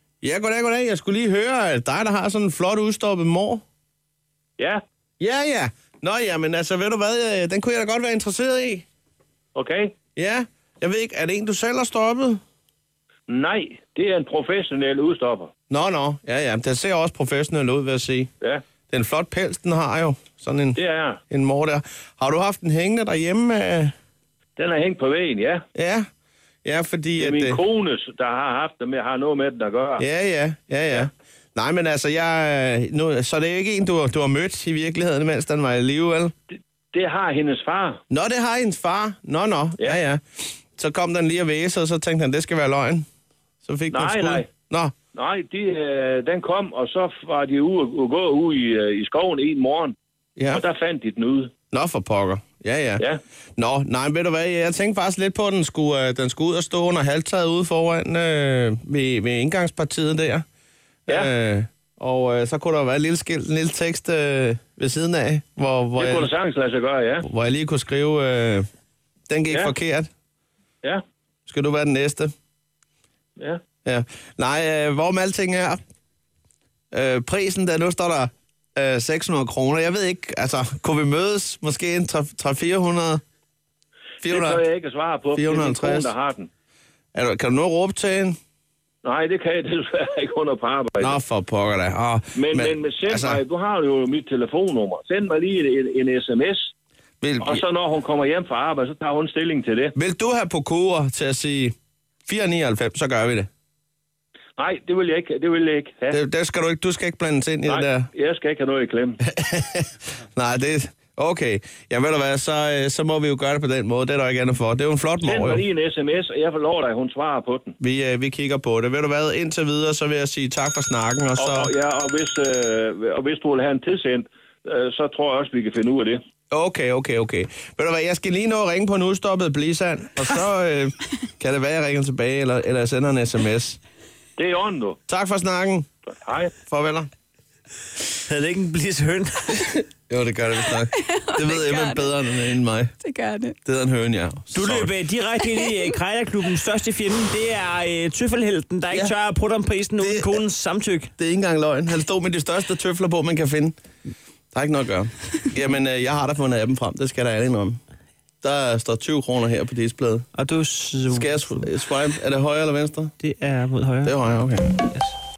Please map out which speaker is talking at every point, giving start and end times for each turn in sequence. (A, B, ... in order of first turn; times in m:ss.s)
0:00.2-0:03.6 A
0:05.2-0:08.8 A
0:09.5-0:09.9 B
0:10.1-0:12.4 A
0:13.3-0:15.5 B
0:15.7-0:18.3 A
0:18.9-0:23.9 A
0:20.8-0:21.2 B
0:24.6-0:25.6 B
0:25.7-0:26.0 A
0:26.6-0:27.6 A
0:27.2-0:30.0 B
0:30.0-0:36.3 A
0:36.9-0:38.0 B
0:38.1-0:43.0 A
0:43.6-0:44.9 A
0:43.9-0:44.5 B
0:45.1-0:49.9 B
0:50.4-0:50.6 A
0:50.5-0:51.5 B
0:51.7-0:53.0 A
0:53.6-1:00.4 A
1:01.1-1:06.3 A
1:06.0-1:07.2 B
1:07.2-1:08.6 A
1:09.3-1:10.1 A
1:11.5-1:12.3 A
1:13.8-1:15.8 A
1:16.9-1:23.2 A
1:24.2-1:24.6 A
1:24.2-1:26.5 B
1:25.3-1:26.1 A
1:27.1-1:28.4 A
1:29.0-1:31.2 B
1:31.0-1:33.4 A
1:32.3-1:36.7 B
1:37.2-1:37.6 A
1:37.4-1:39.9 B
1:40.0-1:41.7 A
1:42.3-1:43.5 A
1:44.6-1:46.2 B
1:46.1-1:48.1 A
1:47.7-1:49.2 B
1:49.3-1:55.6 A
1:55.2-1:57.7 B
1:57.8-2:01.7 A
2:01.4-2:06.2 B
2:06.5-2:13.8 A
2:14.4-2:15.0 B
2:15.1-2:15.9 A
2:16.0-2:16.5 B
2:16.6-2:17.1 A
2:18.2-2:19.6 C
2:20.1-2:22.9 A
2:20.9-2:22.4 D
2:23.0-2:23.6 D
2:23.6-2:24.9 A
2:24.5-2:31.1 C
2:30.0-2:30.3 A
2:31.2-2:33.7 A
2:34.5-2:37.8 A
2:38.4-2:40.3 A
2:40.3-2:41.7 C
2:41.1-2:43.1 A
2:43.2-2:44.1 C
2:44.0-2:44.6 A
2:44.7-2:45.1 C